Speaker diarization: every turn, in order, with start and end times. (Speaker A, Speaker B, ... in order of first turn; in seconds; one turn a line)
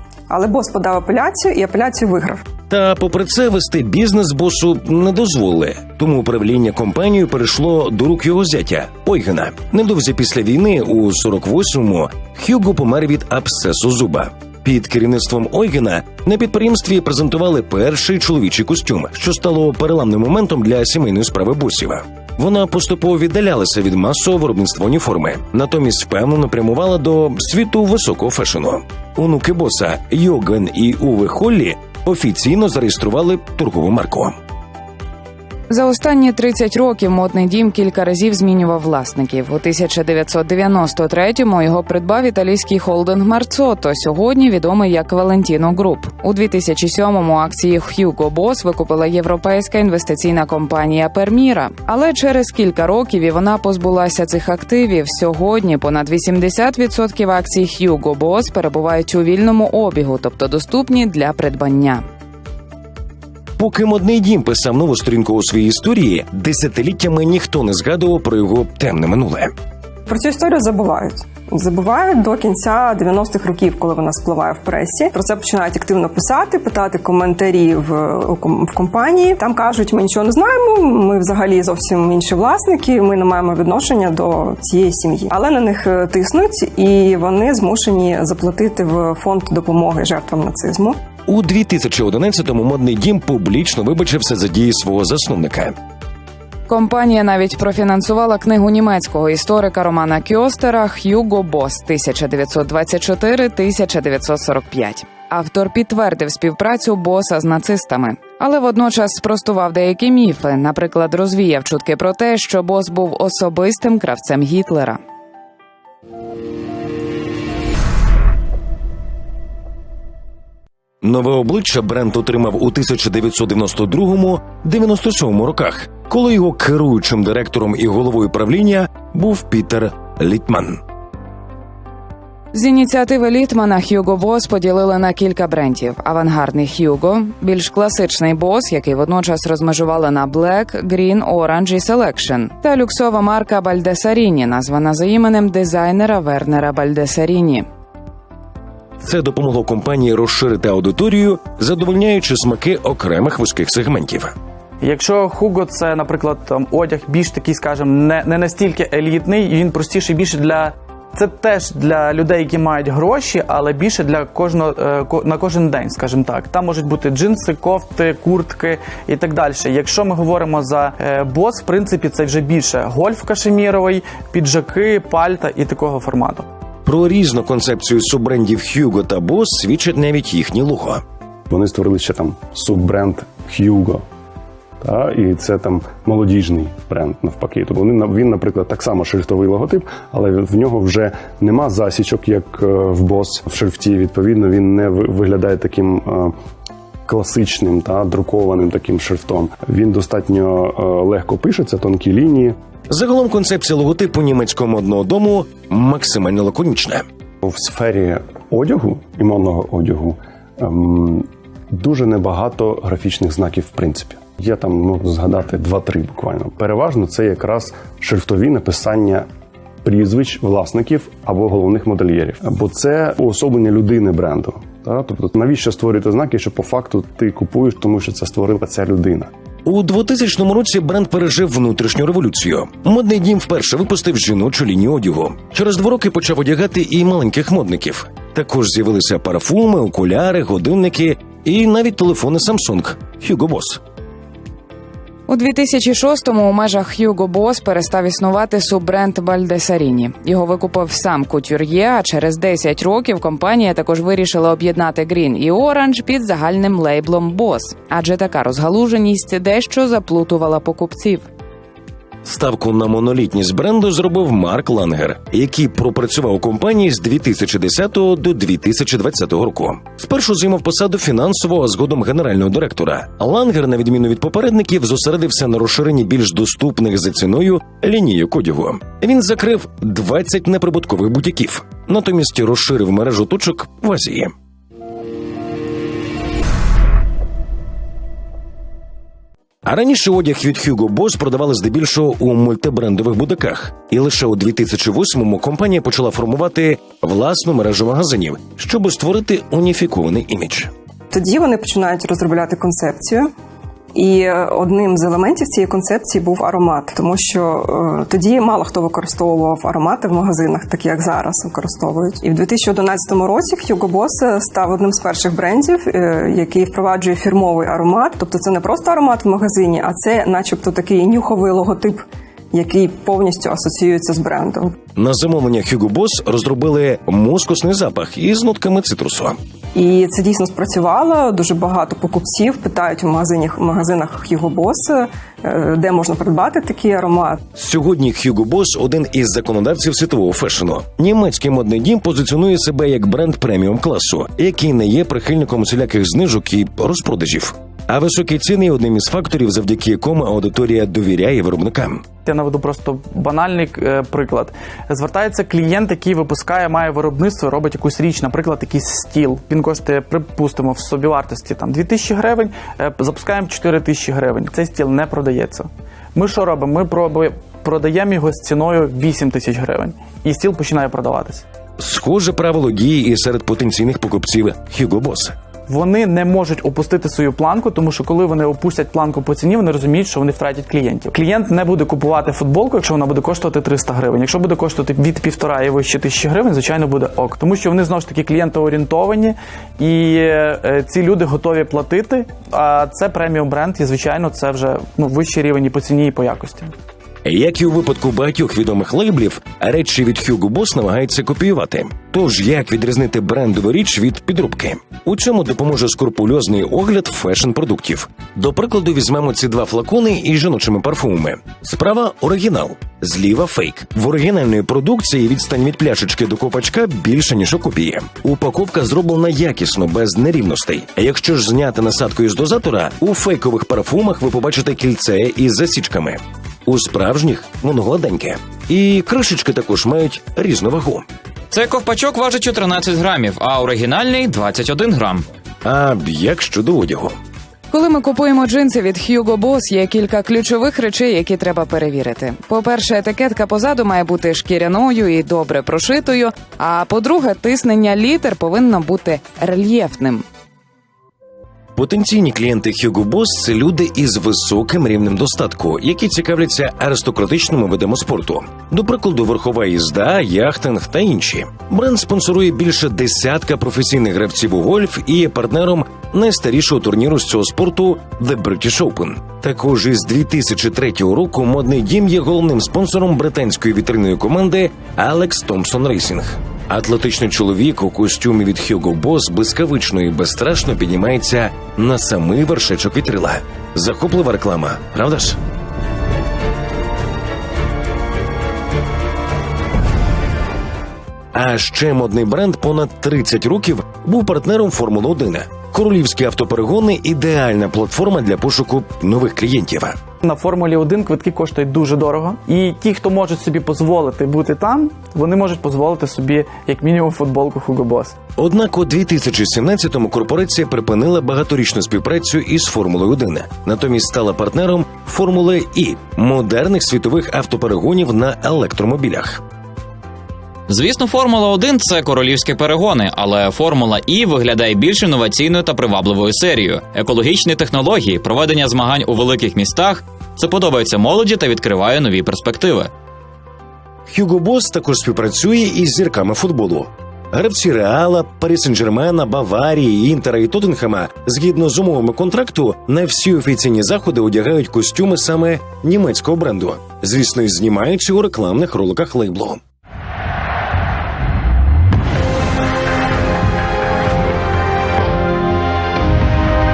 Speaker A: 0.3-2.4
Speaker B: 2.7-34.4
Speaker C: 35.7-62.0
Speaker B: 63.6-69.5
Speaker A: 70.1-91.0
Speaker B: 91.3-95.8
Speaker C: 96.7-115.0
Speaker B: 121.0-130.8
Speaker C: 132.5-147.7
Speaker B: 149.0-154.3
Speaker D: 154.8-176.5
Speaker B: 176.9-181.0
Speaker E: 181.5-184.0
Speaker E: 184.8-196.3
Speaker E: 197.1-202.6
Speaker B: 202.9-207.1
Speaker E: 207.4-219.3
Speaker E: 219.8-229.3
Speaker B: 229.7-243.8
Speaker C: 245.3-261.3
Speaker B: 262.2-284.3
Speaker B: 289.6-300.7
Speaker A: 301.1-303.3
Speaker A: 303.9-324.8
Speaker B: 325.0-329.4
Speaker A: 329.7-337.4
Speaker B: 337.6-352.0
Speaker D: 352.2-371.4
Speaker B: 371.8-375.4
Speaker D: 375.7-396.7
Speaker B: 397.2-431.1
Speaker F: 431.5-435.3
Speaker B: 435.6-437.2
Speaker C: 437.7-450.2
Speaker B: 451.8-485.4
Speaker B: 491.3-500.0
Speaker D: 500.2-508.2
Speaker B: 508.4-519.4
Speaker F: 520.7-532.9
Speaker B: 534.1-549.6